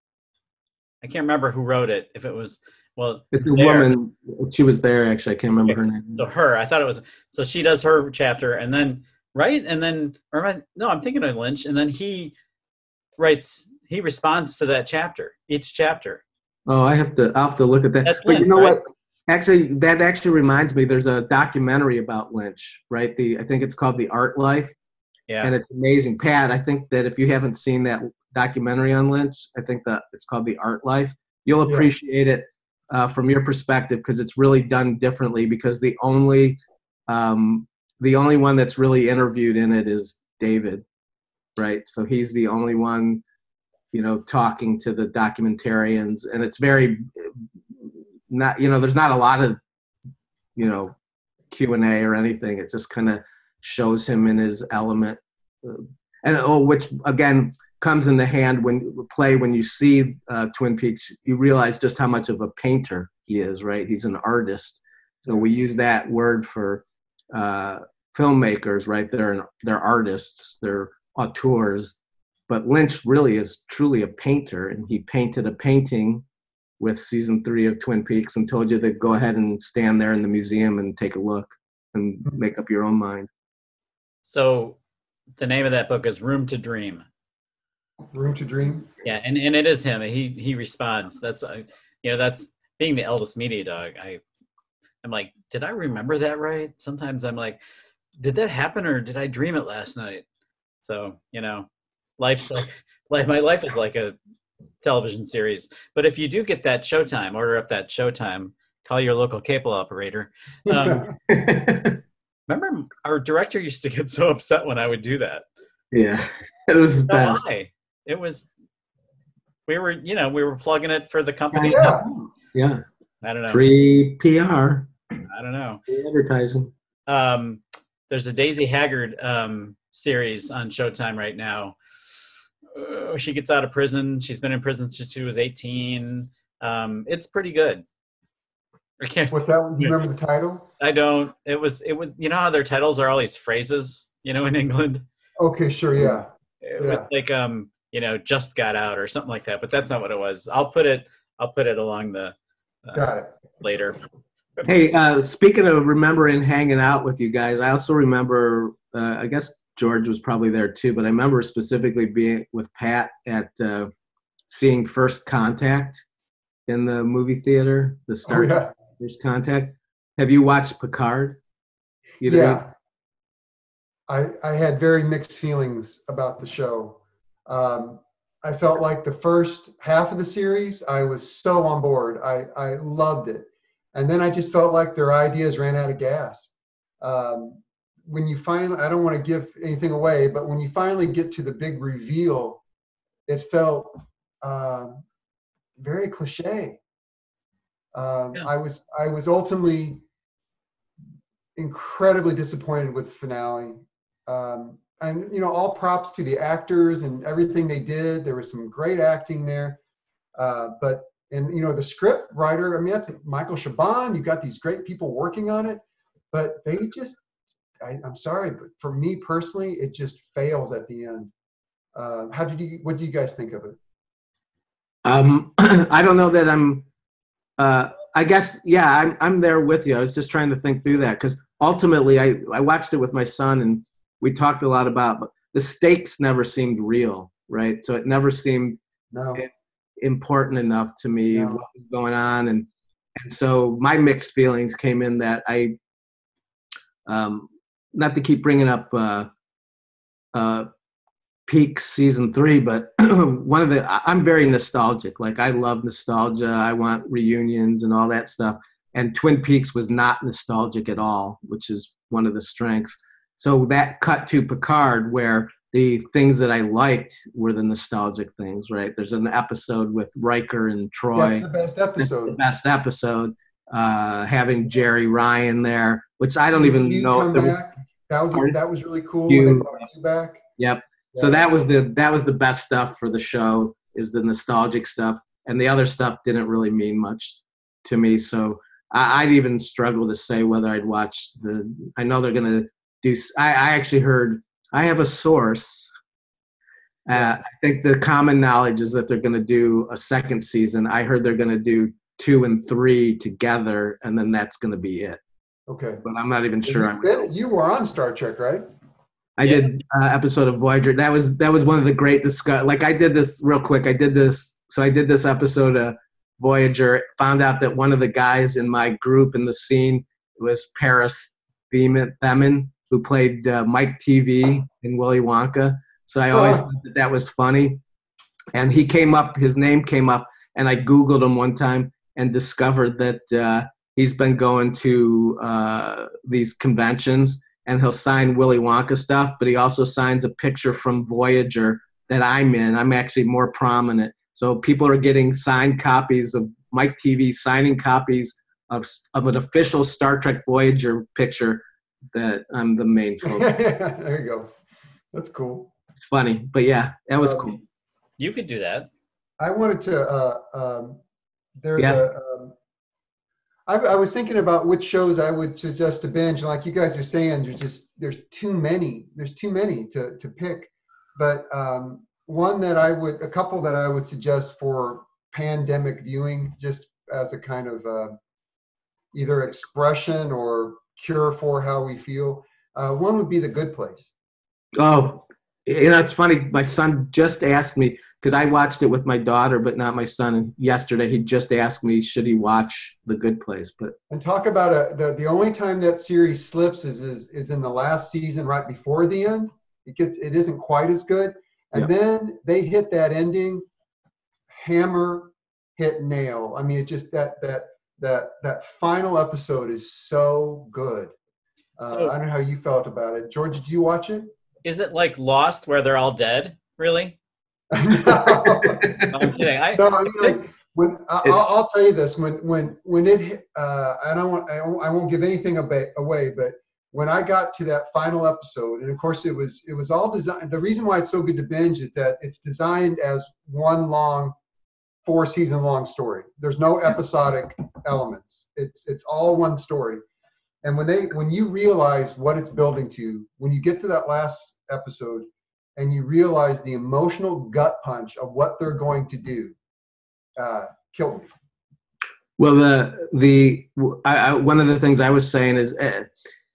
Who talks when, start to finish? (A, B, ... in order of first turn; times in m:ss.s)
0:01.0-0:03.9 A
0:03.3-0:06.2 B
0:05.6-0:12.3 A
0:13.2-0:16.2 A
0:16.7-0:24.7 B
0:18.0-0:18.8 A
0:25.4-0:40.8 B
0:41.6-0:43.2 B
0:43.9-0:49.6 B
0:50.6-0:50.9 B
0:51.5-1:12.0 B
1:12.5-1:16.2 B
1:16.8-1:23.3 B
1:24.2-1:24.8 A
1:25.4-1:27.0 A
1:28.1-1:28.9 C
1:29.0-1:34.2 A
1:35.0-1:37.6 A
1:38.2-1:40.2 A
1:40.8-1:41.7 A
1:42.2-1:44.2 A
1:44.8-1:51.1 A
1:50.7-1:51.1 C
1:51.3-1:52.0 B
1:52.5-1:55.4 A
1:55.9-1:57.4 B
1:57.1-1:58.5 A
1:59.7-2:02.0 A
2:01.5-2:02.8 B
2:01.7-2:02.1 C
2:03.2-2:03.6 A
2:03.5-2:04.9 B
2:05.3-2:05.8 A
2:05.9-2:06.7 B
2:07.1-2:11.8 A
2:12.7-2:17.8 A
2:19.0-2:19.9 A
2:19.3-2:20.7 C
2:20.8-2:25.0 A
2:25.4-2:26.3 C
2:26.0-2:34.0 A
2:26.8-2:27.0 C
2:32.9-2:33.3 C
2:34.6-2:43.9 B
2:44.5-2:46.0 B
2:46.7-2:51.4 B
2:48.2-2:48.7 C
2:52.2-2:52.6 B
2:52.2-2:52.7 C
2:54.1-3:12.6 C
3:13.3-3:15.0 C
3:15.8-3:16.8 C
3:17.9-3:20.0 C
3:21.6-3:29.8 C
3:30.4-3:37.2 C
3:37.8-3:41.3 C
3:41.9-3:43.8 C
3:45.0-3:46.9 B
3:47.6-3:58.8 B
3:59.1-3:59.4 C
3:59.3-4:05.8 B
4:01.3-4:01.6 C
4:07.0-4:09.3 B
4:10.3-4:10.7 B
4:11.5-4:31.4 B
4:31.1-4:32.4 C
4:32.0-4:37.6 B
4:36.5-4:40.4 C
4:39.3-4:39.8 B
4:40.6-4:55.9 B
4:41.1-4:41.5 C
4:57.0-5:05.2 B
5:05.7-5:06.0 C
5:06.0-5:07.3 B
5:06.6-5:08.6 C
5:09.4-5:27.8 B
5:09.4-5:09.8 A
5:26.3-5:26.6 C
5:28.5-5:51.6 B
5:52.1-5:53.5 B
5:53.2-5:54.5 C
5:55.1-5:55.7 C
5:56.0-5:57.6 B
5:57.2-5:57.6 C
5:58.2-5:58.9 A
5:59.4-6:01.0 C
6:01.6-6:02.5 C
6:01.8-6:02.0 B
6:03.7-6:18.2 C
6:19.1-6:24.1 C
6:24.8-6:33.9 B
6:34.1-6:43.6 C
6:44.5-6:51.1 C
6:51.8-6:54.3 C
6:51.9-6:52.1 A
6:54.6-6:57.2 A
6:57.7-6:59.2 C
6:58.1-6:59.1 B
6:59.0-7:00.4 A
6:59.7-7:14.3 C
7:15.0-7:20.0 C
7:20.6-7:29.5 C
7:30.4-7:31.3 C
7:32.4-7:36.1 B